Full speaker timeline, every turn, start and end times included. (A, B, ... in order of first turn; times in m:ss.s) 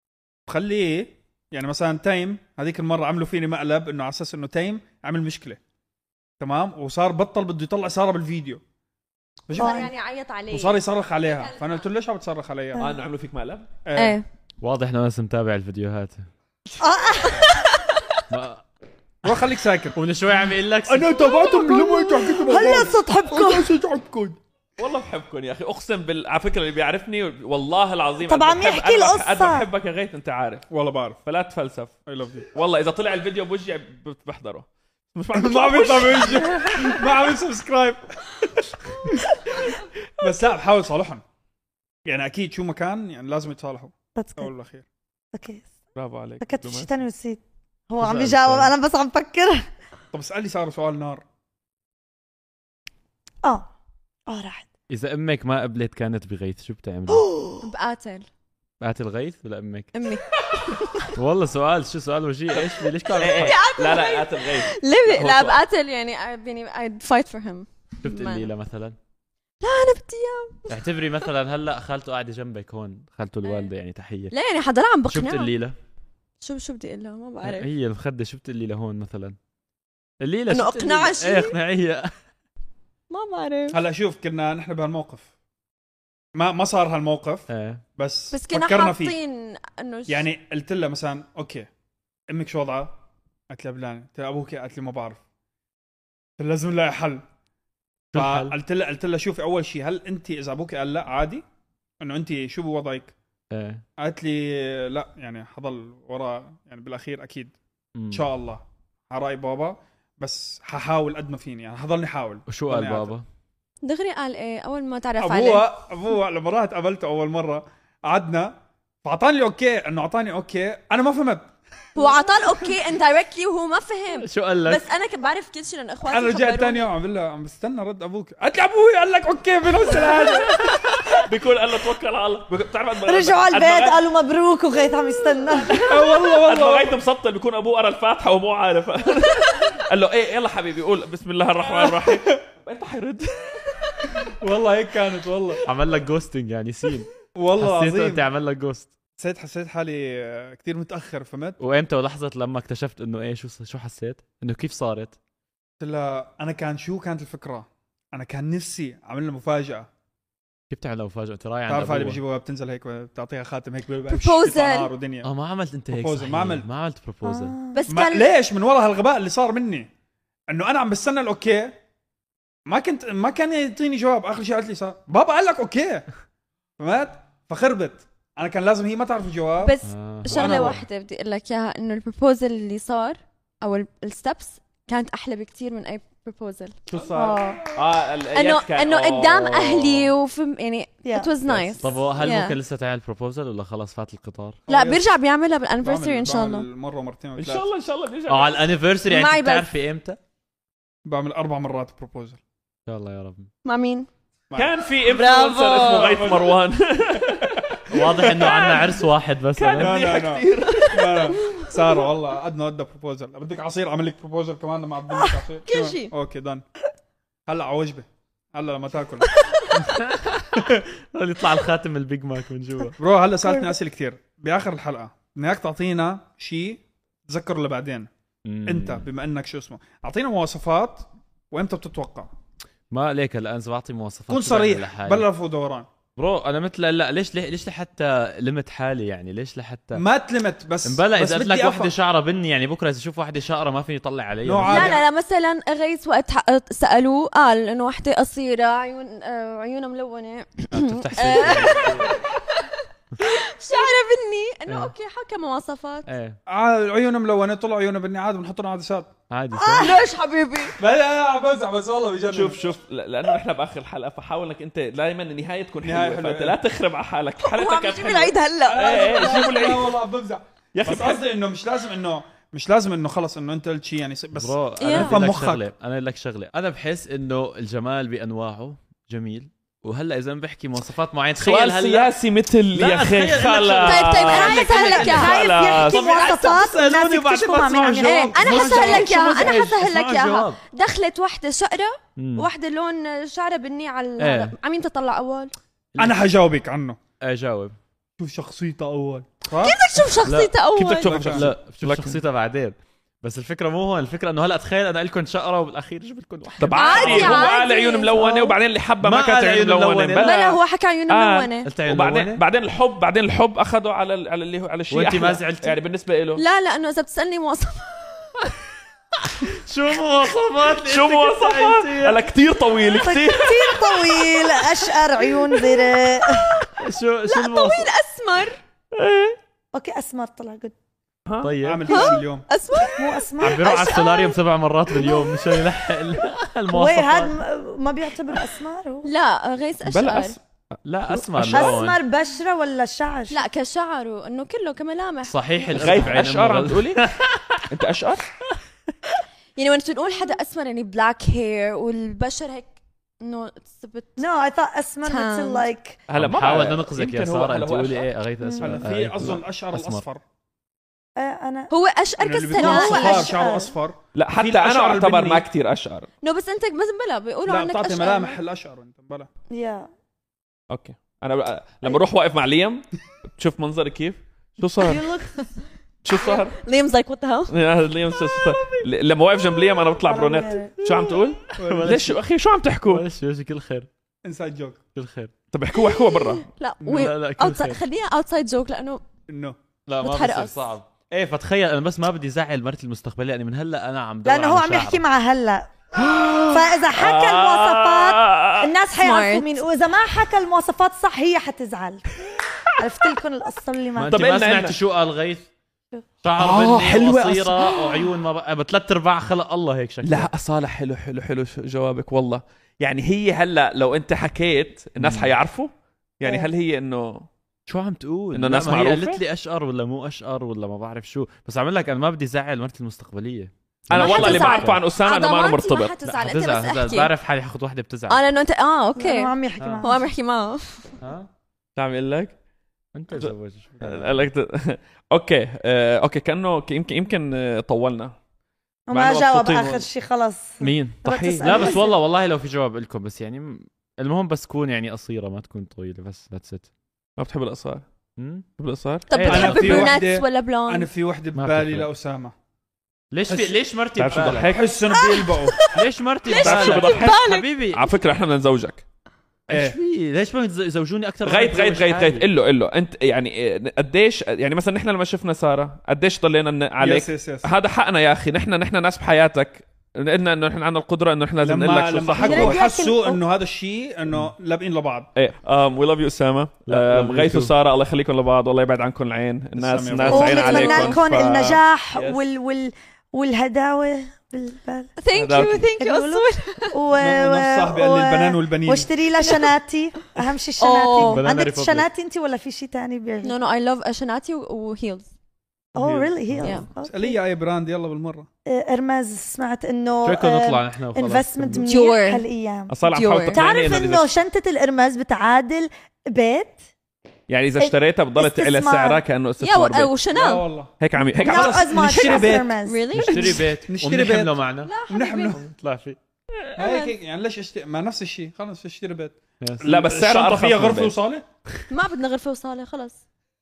0:00.5-0:05.6 A
0:06.4-0:08.6 A
0:09.5-0:09.9 A
0:09.5-0:11.8 B
0:09.6-0:09.9 C
0:10.5-0:12.9 A
0:12.8-0:13.7 D
0:13.8-0:14.2 A
0:14.0-0:14.2 B
0:14.6-0:16.3 E
0:16.8-0:17.6 C
0:18.3-0:18.6 E
0:19.2-0:20.0 A
0:20.0-0:21.3 E
0:20.9-0:24.4 A
0:21.4-0:23.7 C
0:24.8-0:30.7 D
0:28.3-0:29.7 C
0:30.7-0:31.2 A
0:31.2-0:32.0 D
0:32.1-0:32.5 A
0:32.5-0:36.9 D
0:35.3-0:39.2 A
0:40.2-0:41.2 A
0:42.0-0:44.9 A
0:44.2-0:44.5 C
0:45.3-0:45.7 C
0:46.0-0:47.0 D
0:46.4-0:49.7 C
0:48.0-0:48.7 E
0:50.1-0:51.2 A
0:54.3-0:54.7 C
0:54.9-0:57.3 E
0:57.6-0:58.3 B
0:58.8-0:59.9 E
0:59.9-1:01.1 B
1:01.1-1:03.6 E
1:02.5-1:05.6 D
1:03.3-1:08.5 B
1:08.0-1:09.0 E
1:09.6-1:10.7 B
1:10.7-1:14.4 E
1:13.4-1:13.7 B
1:14.3-1:15.5 B
1:15.1-1:15.8 E
1:16.4-1:17.7 B
1:17.4-1:19.4 E
1:20.2-1:22.1 E
1:20.5-1:21.6 B
1:23.1-1:23.8 B
1:23.7-1:25.3 A
1:26.3-1:29.2 A
1:27.5-1:27.8 E
1:28.3-1:30.3 B
1:30.1-1:31.7 A
1:32.3-1:32.9 A
1:33.5-1:35.2 A
1:36.4-1:37.2 A
1:38.1-1:38.6 E
1:38.1-1:41.4 A
1:42.0-1:43.1 A
1:43.5-1:43.8 E
1:44.0-1:47.5 A
1:48.0-1:48.2 E
1:48.1-1:53.2 A
1:52.5-1:53.2 E
1:53.8-1:55.7 B
1:55.2-2:02.1 A
2:02.0-2:06.9 B
2:04.2-2:04.8 E
2:06.0-2:10.9 A
2:10.4-2:14.0 D
2:13.0-2:15.8 C
2:15.6-2:24.3 D
2:15.8-2:17.0 A
2:21.8-2:22.4 A
2:24.3-2:25.6 A
2:25.7-2:28.9 E
2:27.4-2:28.2 A
2:29.2-2:31.6 A
2:31.6-2:35.2 E
2:35.8-2:39.9 A
2:40.7-2:42.2 E
2:41.7-2:45.3 A
2:44.1-2:44.9 B
2:45.2-2:47.6 E
2:45.9-2:46.7 A
2:47.2-2:47.8 C
2:47.7-2:48.3 B
2:47.9-2:49.9 A
2:50.5-2:51.8 A
2:52.7-2:56.1 A
2:56.8-3:00.8 A
2:59.6-3:06.8 B
2:59.8-3:00.8 E
3:06.9-3:10.1 D
3:07.1-3:07.6 C
3:08.3-3:12.6 B
3:11.0-3:11.3 C
3:11.8-3:14.6 E
3:14.7-3:15.0 A
3:14.7-3:16.7 B
3:15.8-3:17.7 A
3:17.4-3:18.7 D
3:18.3-3:20.2 E
3:19.1-3:19.7 B
3:21.0-3:22.4 A
3:22.9-3:23.5 E
3:23.6-3:24.1 B
3:24.6-3:29.0 D
3:25.1-3:26.4 B
3:25.8-3:26.5 A
3:27.9-3:30.0 E
3:28.4-3:28.8 B
3:29.6-3:31.6 D
3:29.8-3:36.6 A
3:30.7-3:31.9 B
3:35.7-3:36.1 B
3:37.5-3:39.4 A
3:39.7-3:43.0 E
3:43.0-3:48.1 A
3:48.4-3:49.1 E
3:48.7-3:52.3 A
3:52.9-3:55.3 E
3:54.3-3:55.9 A
3:56.2-4:00.0 E
4:00.0-4:01.9 A
4:00.8-4:05.0 E
4:04.4-4:05.0 A
4:04.7-4:16.1 B
4:10.7-4:12.1 E
4:14.7-4:14.9 E
4:16.1-4:16.4 E
4:16.5-4:19.1 A
4:19.3-4:20.0 E
4:19.6-4:20.0 C
4:19.8-4:20.8 B
4:20.8-4:22.6 A
4:22.3-4:30.0 D
4:25.8-4:26.6 A
4:27.4-4:29.0 B
4:28.7-4:35.6 A
4:30.7-4:31.2 D
4:34.3-4:42.1 E
4:34.8-4:35.2 B
4:41.4-4:46.3 D
4:42.7-4:45.4 E
4:43.8-4:46.5 B
4:45.0-4:48.7 C
4:45.9-4:49.2 A
4:48.0-4:55.5 B
4:48.4-4:50.6 E
4:52.2-4:52.5 E
4:54.2-4:54.5 E
4:56.0-4:56.2 E
4:56.0-4:57.0 A
4:57.2-4:57.8 E
4:58.2-4:59.8 A
4:59.6-5:01.2 B
5:00.2-5:07.6 E
5:00.8-5:02.2 D
5:01.1-5:01.5 A
5:06.6-5:16.4 D
5:06.8-5:08.6 B
5:09.0-5:10.4 E
5:10.2-5:11.7 B
5:11.6-5:12.4 E
5:14.9-5:15.8 E
5:16.4-5:18.4 B
5:19.4-5:22.2 E
5:20.7-5:23.8 D
5:22.9-5:26.6 C
5:23.4-5:26.7 B
5:26.8-5:27.9 E
5:27.3-5:28.6 B
5:28.9-5:29.4 D
5:29.7-5:30.7 C
5:31.3-5:31.5 D
5:31.4-5:32.1 E
5:31.6-5:32.5 A
5:31.9-5:34.4 B
5:33.0-5:33.7 C
5:33.4-5:37.4 E
5:34.9-5:35.6 B
5:36.7-5:39.1 C
5:39.0-5:40.4 B
5:39.8-5:41.7 D
5:40.8-5:42.0 E
5:41.4-5:43.4 C
5:43.3-5:46.2 B
5:45.3-5:47.7 E
5:45.7-5:47.0 D
5:47.7-5:48.3 D
5:49.6-5:54.2 B
5:54.2-5:56.0 C
5:55.0-5:55.6 B
5:56.1-5:58.1 D
5:56.1-6:00.0 E
5:58.4-5:58.8 C
5:58.6-6:00.2 A
6:01.2-6:01.7 C
6:01.7-6:03.3 B
6:02.2-6:05.5 A
6:02.5-6:03.7 C
6:04.2-6:06.1 D
6:06.2-6:08.4 B
6:07.4-6:09.3 A
6:09.5-6:09.9 C
6:10.7-6:15.1 D
6:14.8-6:15.3 C
6:16.0-6:16.6 D
6:16.2-6:17.6 B
6:17.5-6:23.0 D
6:18.1-6:18.8 B
6:20.0-6:20.8 C
6:20.9-6:22.2 E
6:21.6-6:22.0 A
6:22.9-6:23.9 E
6:24.2-6:24.8 A
6:25.0-6:25.3 E
6:25.5-6:26.5 D
6:25.7-6:29.0 B
6:26.8-6:27.1 A
6:26.9-6:27.8 E
6:29.3-6:29.6 A
6:29.9-6:35.0 E
6:30.0-6:30.6 B
6:34.2-6:35.7 C
6:36.0-6:38.7 D
6:36.5-6:42.1 C
6:39.0-6:39.5 B
6:42.8-6:44.4 C
6:44.0-6:45.5 E
6:44.1-6:44.8 D
6:46.2-6:50.3 E
6:46.4-6:48.1 D
6:50.0-6:57.3 D
6:55.0-6:55.3 E
6:57.7-7:04.8 E
6:58.3-6:59.2 D
7:03.9-7:05.9 D
7:04.0-7:07.1 B
7:06.0-7:08.2 E
7:08.1-7:11.0 B
7:09.0-7:10.0 C
7:09.6-7:09.9 E
7:11.0-7:11.3 E
7:11.8-7:12.4 D
7:13.0-7:14.2 E
7:13.2-7:18.2 D
7:18.9-7:22.0 C
7:18.9-7:19.9 D
7:20.6-7:26.7 E
7:21.0-7:21.8 D
7:27.2-7:27.8 D
7:28.2-7:28.5 E
7:28.6-7:29.4 D
7:29.1-7:30.9 B
7:29.1-7:30.0 E
7:29.2-7:32.3 A
7:31.4-7:31.9 E
7:33.1-7:34.5 E
7:34.0-7:34.8 D
7:34.3-7:35.7 A
7:34.9-7:37.5 B
7:35.7-7:38.0 E
7:36.3-7:38.8 D
7:39.5-7:42.3 E
7:39.5-7:39.8 A
7:41.2-7:52.6 D
7:46.8-7:47.5 A
7:51.4-7:55.1 A
7:52.2-7:53.2 C
7:55.2-8:02.2 D
7:56.7-7:57.5 E
7:59.6-8:00.3 A
8:00.0-8:04.9 C
8:00.1-8:01.0 B
8:05.0-8:06.8 B
8:05.1-8:05.7 D
8:05.8-8:13.4 C
8:07.0-8:08.9 A
8:09.2-8:09.5 B
8:10.6-8:11.2 B
8:11.0-8:11.9 E
8:13.2-8:15.1 B
8:15.8-8:17.2 C
8:15.8-8:18.3 A
8:18.5-8:22.8 C
8:20.0-8:21.7 E
8:21.6-8:22.3 B
8:22.7-8:24.1 D
8:22.9-8:23.4 B
8:23.3-8:26.6 C
8:27.3-8:29.9 D
8:27.6-8:29.0 C
8:29.4-8:30.5 B
8:30.1-8:32.5 A
8:30.8-8:32.3 D
8:31.2-8:32.9 C
8:32.0-8:33.5 B
8:32.9-8:34.7 E
8:33.6-8:35.4 A
8:34.6-8:35.4 B
8:35.3-8:36.0 E
8:36.6-8:41.2 A
8:36.6-8:36.9 B
8:39.4-8:39.7 E
8:39.6-8:41.0 D
8:41.7-8:43.0 B